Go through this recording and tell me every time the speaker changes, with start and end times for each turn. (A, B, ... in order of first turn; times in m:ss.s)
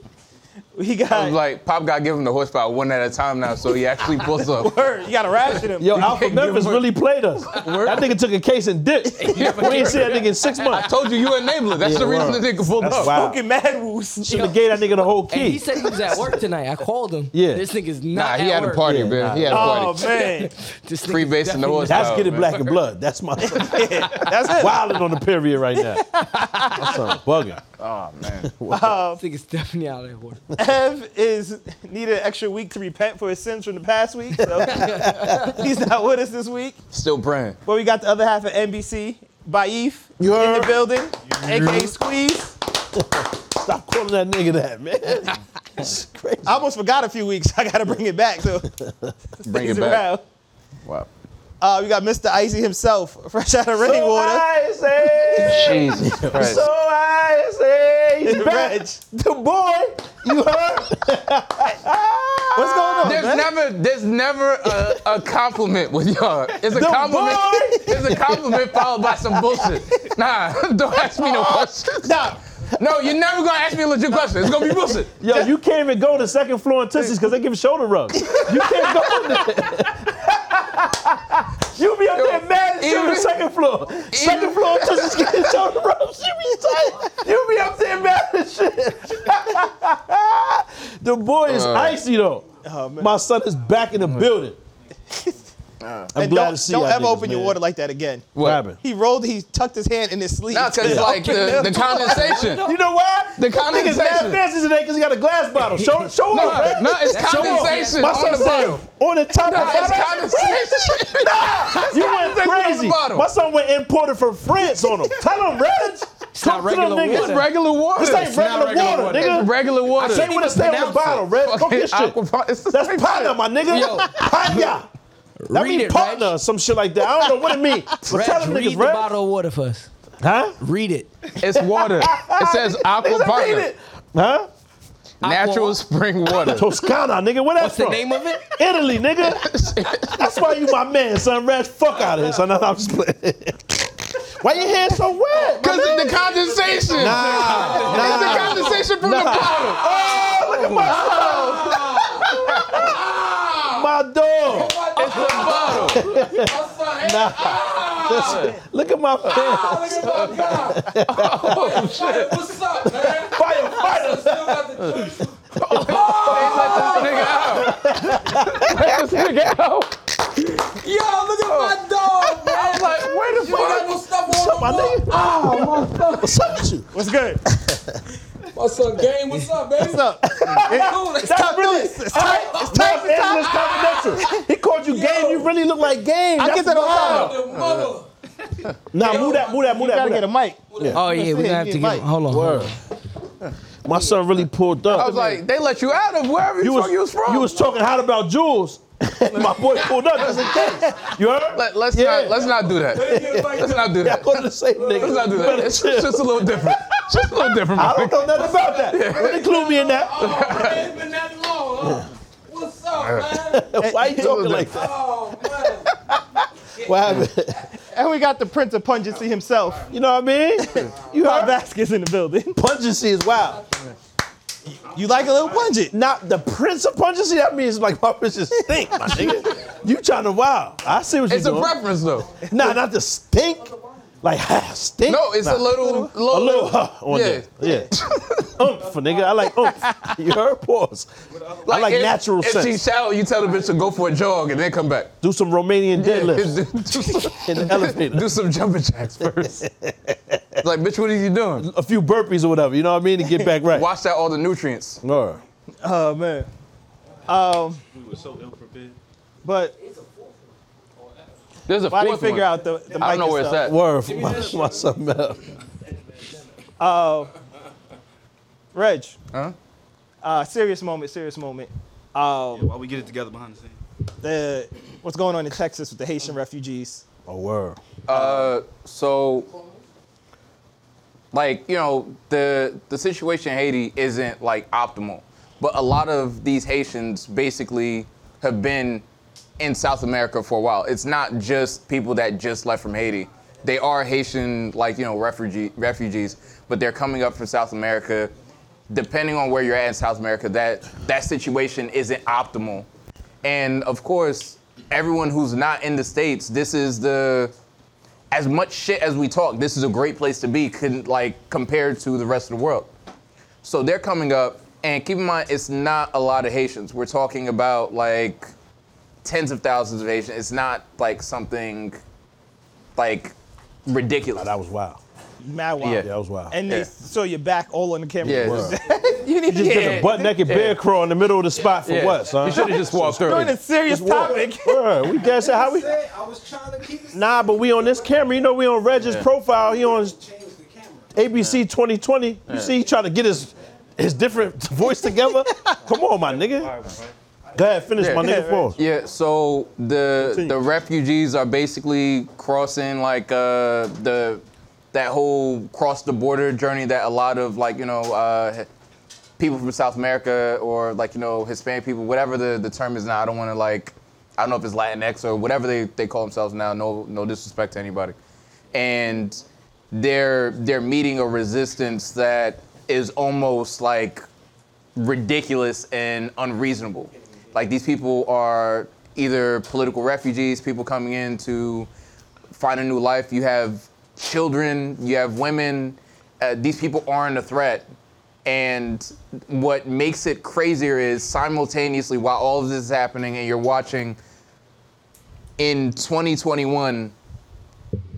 0:00.7-0:01.4 A
0:01.1-0:04.7 B
0:04.4-0:06.0 A
0:05.8-0:10.9 C
0:05.9-0:06.8 B
0:07.6-0:08.0 D
0:09.2-0:10.8 D
0:09.3-0:13.1 B
0:11.8-0:13.4 C
0:12.9-0:14.5 A
0:14.2-0:15.6 C
0:15.3-0:19.4 D
0:17.3-0:17.6 C
0:18.1-0:20.3 B
0:18.8-0:19.8 C
0:19.5-0:20.5 A
0:20.0-0:22.5 D
0:21.0-0:22.7 B
0:21.8-0:27.6 C
0:23.5-0:25.0 A
0:25.8-0:27.1 A
0:27.8-0:28.5 B
0:28.5-0:29.0 C
0:28.7-0:29.2 A
0:29.2-0:30.4 D
0:30.6-0:36.8 A
0:34.4-0:35.4 C
0:34.7-0:35.5 D
0:36.9-0:37.6 B
0:37.6-0:42.6 A
0:40.2-0:40.8 C
0:41.4-0:41.9 E
0:42.9-0:46.6 C
0:46.4-0:48.7 A
0:48.8-0:49.1 C
0:49.4-0:50.2 A
0:49.4-0:50.1 B
0:51.6-0:54.5 A
0:53.8-1:03.2 C
0:55.4-0:56.6 B
0:58.2-0:59.0 A
1:02.5-1:03.5 A
1:03.0-1:15.2 B
1:06.7-1:08.8 C
1:12.0-1:12.4 A
1:15.0-1:32.5 C
1:18.3-1:19.4 A
1:22.1-1:23.4 B
1:24.1-1:25.4 B
1:31.5-1:32.0 B
1:32.6-1:33.1 A
1:33.0-1:34.6 C
1:34.0-1:34.3 B
1:35.8-1:36.1 B
1:36.1-1:37.6 C
1:36.1-1:38.3 A
1:38.4-1:38.6 B
1:38.4-1:38.8 C
1:38.8-1:42.5 A
1:40.5-1:42.7 B
1:40.8-1:41.5 C
1:42.0-1:42.8 D
1:42.6-1:57.4 C
1:43.4-1:44.4 B
1:45.7-1:48.3 D
1:46.3-1:48.8 B
1:49.4-1:50.2 A
1:49.4-1:53.2 B
1:56.3-1:57.5 D
1:57.1-2:00.4 B
1:57.9-2:02.2 C
2:00.2-2:01.2 D
2:01.2-2:04.6 B
2:02.7-2:04.9 C
2:05.4-2:06.3 D
2:05.5-2:09.1 C
2:08.1-2:09.9 D
2:10.2-2:10.6 C
2:10.6-2:11.1 D
2:11.4-2:13.7 B
2:11.4-2:14.5 C
2:15.2-2:15.8 D
2:15.2-2:16.8 B
2:16.4-2:25.7 C
2:17.6-2:18.6 D
2:19.4-2:20.4 B
2:25.6-2:33.6 B
2:25.9-2:28.8 F
2:26.9-2:33.0 C
2:28.1-2:28.4 D
2:31.1-2:32.3 F
2:32.9-2:33.6 F
2:33.7-2:34.8 C
2:34.5-2:38.4 F
2:34.9-2:36.1 B
2:35.6-2:42.0 C
2:38.1-2:38.5 B
2:39.2-2:43.1 B
2:39.4-2:40.9 F
2:41.4-2:47.7 F
2:43.2-2:45.1 C
2:45.6-2:47.9 B
2:45.6-2:49.2 C
2:48.4-2:49.9 B
2:50.7-2:56.7 F
2:51.4-2:54.1 B
2:54.2-2:56.9 C
2:56.9-2:57.4 A
2:57.4-2:58.0 C
2:58.5-3:04.1 F
2:59.8-3:03.6 A
3:00.3-3:07.4 C
3:04.2-3:04.4 A
3:04.8-3:05.5 F
3:06.4-3:07.4 A
3:07.0-3:08.0 F
3:07.5-3:07.9 B
3:08.9-3:11.0 C
3:09.0-3:09.7 F
3:09.0-3:12.0 A
3:10.7-3:11.0 F
3:10.9-3:12.8 D
3:12.3-3:12.8 C
3:13.8-3:15.4 C
3:14.9-3:17.6 B
3:16.6-3:26.4 C
3:19.6-3:20.1 F
3:21.5-3:29.6 B
3:22.9-3:23.8 F
3:24.8-3:25.3 F
3:27.7-3:30.9 C
3:28.4-3:33.6 F
3:30.1-3:31.0 B
3:31.8-3:32.1 C
3:33.0-3:33.5 B
3:33.4-3:34.9 C
3:33.8-3:34.6 A
3:34.2-3:34.7 B
3:34.8-3:35.8 F
3:36.8-3:37.7 C
3:37.9-3:39.9 A
3:39.9-3:41.6 C
3:40.7-3:42.6 A
3:42.5-3:43.6 C
3:44.8-3:45.9 A
3:45.9-3:51.8 C
3:51.3-3:52.4 B
3:52.4-3:52.8 A
3:52.4-4:01.1 C
3:55.1-3:58.5 B
3:55.8-3:56.1 A
3:59.7-4:00.1 A
4:01.6-4:02.8 C
4:01.6-4:05.1 B
4:05.2-4:08.3 C
4:05.9-4:09.6 B
4:09.4-4:10.6 C
4:10.6-4:11.6 B
4:11.6-4:13.9 C
4:13.7-4:15.0 B
4:15.0-4:15.4 C
4:15.8-4:16.5 A
4:17.3-4:17.8 A
4:18.0-4:18.9 E
4:19.4-4:19.8 A
4:21.7-4:23.8 B
4:21.9-4:23.7 A
4:23.6-4:25.4 C
4:26.8-4:27.3 A
4:28.7-4:29.2 A
4:30.2-4:32.7 A
4:32.5-4:33.8 E
4:34.2-4:37.0 A
4:37.2-4:37.8 C
4:38.1-4:39.5 B
4:38.1-4:38.5 A
4:41.3-4:49.0 B
4:49.6-4:58.3 B
4:58.9-5:02.9 B
5:03.4-5:07.5 B
5:08.3-5:12.9 B
5:13.6-5:18.5 B
5:19.2-5:22.0 B
5:23.0-5:23.3 B
5:23.8-5:24.5 B
5:24.3-5:25.0 C
5:25.4-5:30.4 A
5:25.8-5:26.1 B
5:26.0-5:26.6 C
5:28.2-5:28.8 C
5:28.2-5:28.7 B
5:29.4-5:36.0 C
5:29.6-5:30.8 B
5:31.6-5:33.5 B
5:33.2-5:35.0 A
5:37.1-5:40.2 C
5:41.1-5:46.8 C
5:45.4-5:45.7 A
5:47.5-5:48.8 C
5:48.0-5:58.7 B
5:48.1-5:48.7 A
5:50.2-5:50.6 C
5:59.4-6:08.2 B
6:08.7-6:14.2 B
6:15.0-6:21.9 B
6:22.5-6:27.8 B
6:28.4-6:34.2 B
6:35.6-6:37.1 B